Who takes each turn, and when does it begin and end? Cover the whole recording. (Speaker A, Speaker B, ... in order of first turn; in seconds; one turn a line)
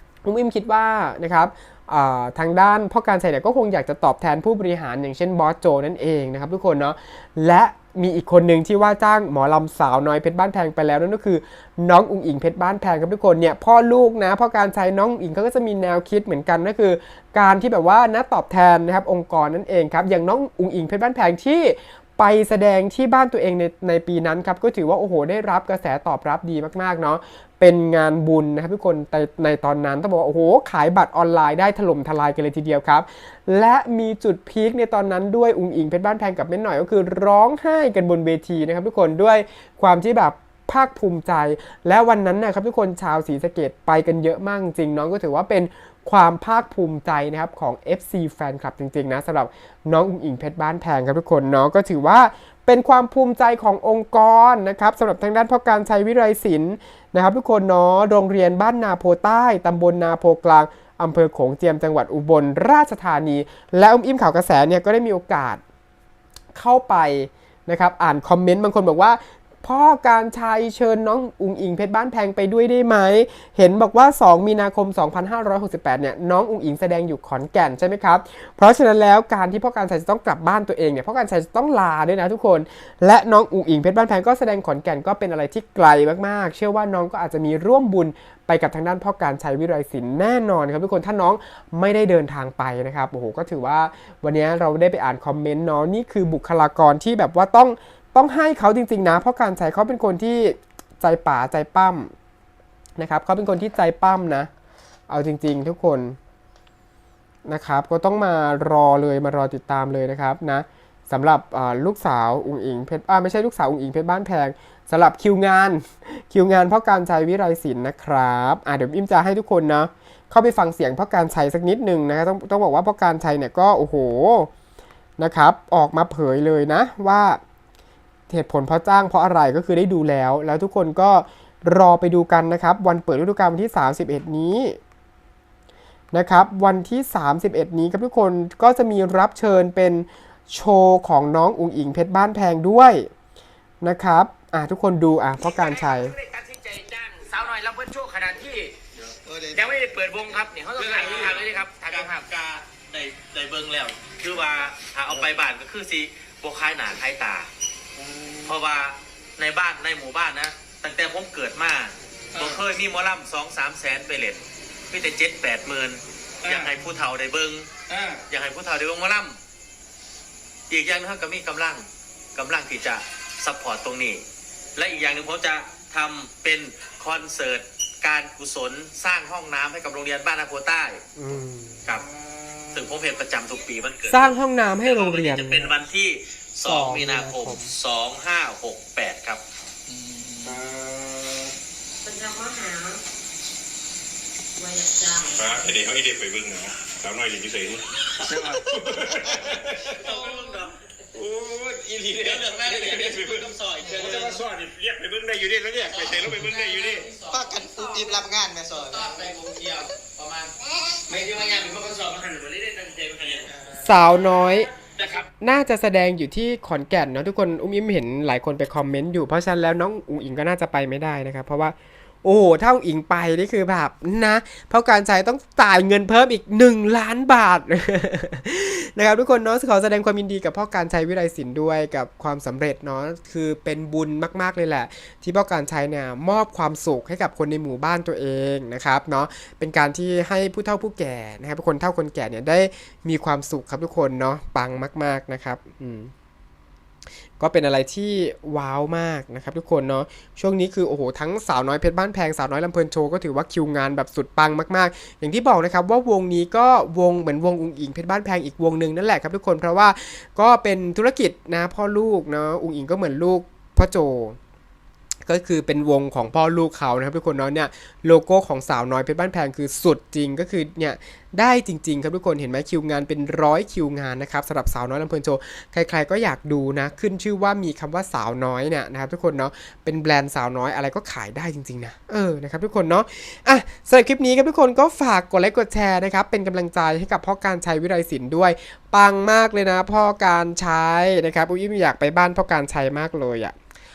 Speaker A: 0.2-65.6
Speaker A: 66.5-102.1
Speaker A: 103.0-104.5
Speaker A: 105.1-106.2
Speaker A: 107.5-124.5
Speaker A: 125.2-127.4
Speaker A: 128.3-134.8
Speaker A: 136.1-143.1
Speaker A: 143.8-146.1
Speaker B: 146.2-147.6
Speaker C: 149.2-149.8
Speaker B: 149.7-151.6
Speaker D: 150.3-157.5
Speaker D: 158.4-167.7
Speaker D: 168.3-169.4
Speaker D: 170.7-174.2
Speaker D: 174.8-181.0
Speaker A: 181.2-181.9
Speaker D: 182.7-189.4
Speaker A: 184.1-185.7
Speaker A: 186.6-187.7
Speaker E: 190.4-191.5
Speaker F: 192.0-193.0
Speaker F: 194.6-195.5
Speaker E: 195.3-200.3
Speaker D: 199.9-200.8
Speaker E: 201.1-207.1
Speaker D: 202.2-204.5
Speaker D: 205.9-208.1
Speaker C: 207.3-209.1
Speaker D: 208.7-210.5
Speaker D: 211.1-213.6
Speaker A: 213.8-214.7
Speaker D: 215.0-215.2
Speaker A: 215.4-246.1
Speaker A: 247.4-264.4
Speaker A: 265.2-293.5